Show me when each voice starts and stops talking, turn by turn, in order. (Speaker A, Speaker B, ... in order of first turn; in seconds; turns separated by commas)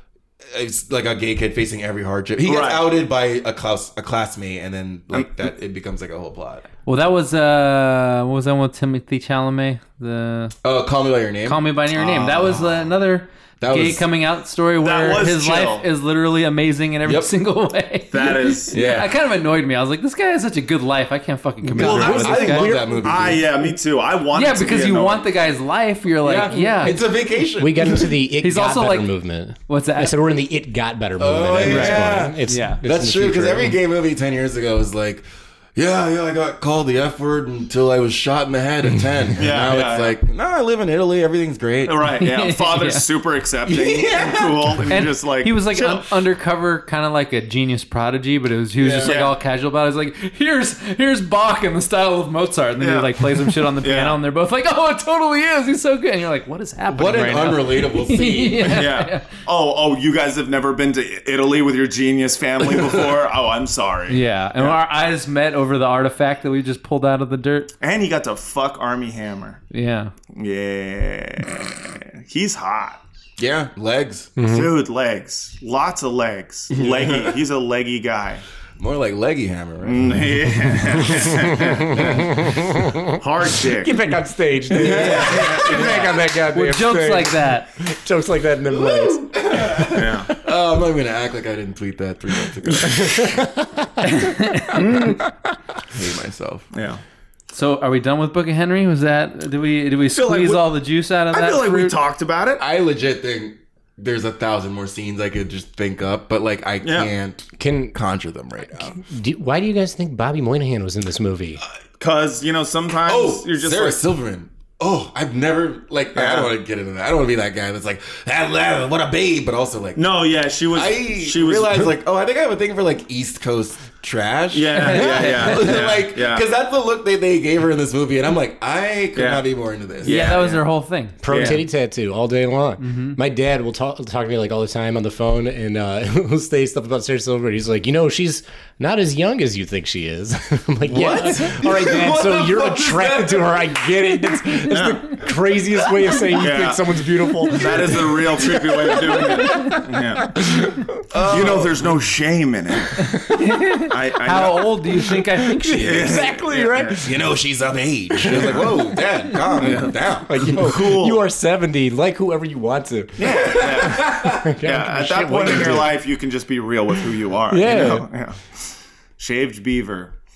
Speaker A: 0.5-6.7, Speaker B: 2.4-2.9, Speaker B: 5.1-5.5, Speaker C: 6.8-10.5, Speaker A: 10.6-11.7, Speaker C: 11.4-22.7, Speaker B: 11.9-12.8, Speaker A: 13.6-14.0, Speaker B: 14.8-15.8, Speaker A: 17.0-17.3, Speaker B: 18.1-18.8, Speaker A: 18.7-19.1, Speaker A: 21.7-23.5, Speaker B: 21.8-25.3, Speaker D: 22.5-23.1, Speaker C: 24.3-27.0, Speaker A: 26.2-28.1, Speaker D: 26.5-26.9, Speaker D: 27.6-33.8, Speaker C: 28.4-29.1, Speaker C: 29.7-30.2, Speaker A: 31.2-42.0, Speaker C: 31.6-32.8, Speaker B: 39.4-40.2, Speaker B: 41.8-46.1, Speaker C: 42.2-43.0, Speaker A: 43.7-44.9, Speaker C: 44.9-59.3, Speaker A: 48.8-49.2, Speaker B: 49.0-49.3, Speaker B: 52.8-54.2, Speaker A: 56.9-58.9, Speaker B: 58.6-64.8, Speaker C: 64.1-67.7, Speaker B: 67.8-69.6, Speaker C: 69.7-70.1, Speaker B: 70.3-73.0, Speaker A: 73.4-74.3, Speaker D: 74.4-74.7, Speaker B: 74.5-78.4, Speaker A: 76.7-77.3, Speaker A: 78.8-80.3, Speaker B: 79.8-82.5, Speaker A: 81.9-82.3, Speaker D: 82.0-83.0, Speaker B: 83.2-84.0, Speaker D: 83.6-89.9, Speaker A: 84.7-86.2, Speaker B: 85.0-85.9, Speaker C: 85.0-85.2, Speaker C: 86.5-87.7, Speaker A: 88.7-93.4, Speaker B: 89.9-90.3, Speaker D: 92.8-93.8, Speaker C: 94.0-94.9, Speaker D: 94.8-95.1, Speaker A: 95.9-96.7, Speaker B: 96.7-97.0, Speaker C: 97.5-102.0, Speaker B: 100.1-100.7, Speaker B: 101.3-102.6, Speaker A: 102.6-109.0, Speaker B: 106.8-107.1, Speaker D: 107.6-107.9, Speaker D: 108.8-111.6, Speaker B: 112.0-114.0, Speaker A: 113.0-120.2, Speaker B: 116.1-116.5, Speaker B: 120.0-121.9, Speaker A: 120.7-130.4, Speaker B: 124.5-126.5, Speaker C: 124.8-125.7, Speaker B: 129.1-129.4, Speaker B: 130.0-130.6, Speaker C: 130.1-131.6, Speaker D: 131.2-150.8, Speaker B: 131.2-131.6, Speaker C: 132.8-133.2, Speaker A: 140.8-143.9, Speaker B: 144.7-145.2, Speaker B: 146.3-146.9, Speaker B: 147.5-150.3, Speaker A: 151.1-151.9, Speaker B: 151.2-153.2, Speaker C: 153.3-156.1, Speaker B: 153.8-154.8, Speaker D: 154.9-157.2, Speaker B: 155.8-157.0, Speaker A: 157.0-160.8, Speaker D: 158.1-159.0, Speaker B: 158.3-158.7, Speaker B: 159.6-161.3, Speaker D: 159.8-166.0, Speaker B: 163.2-168.4, Speaker A: 163.2-164.5, Speaker D: 167.5-168.1, Speaker B: 169.2-170.2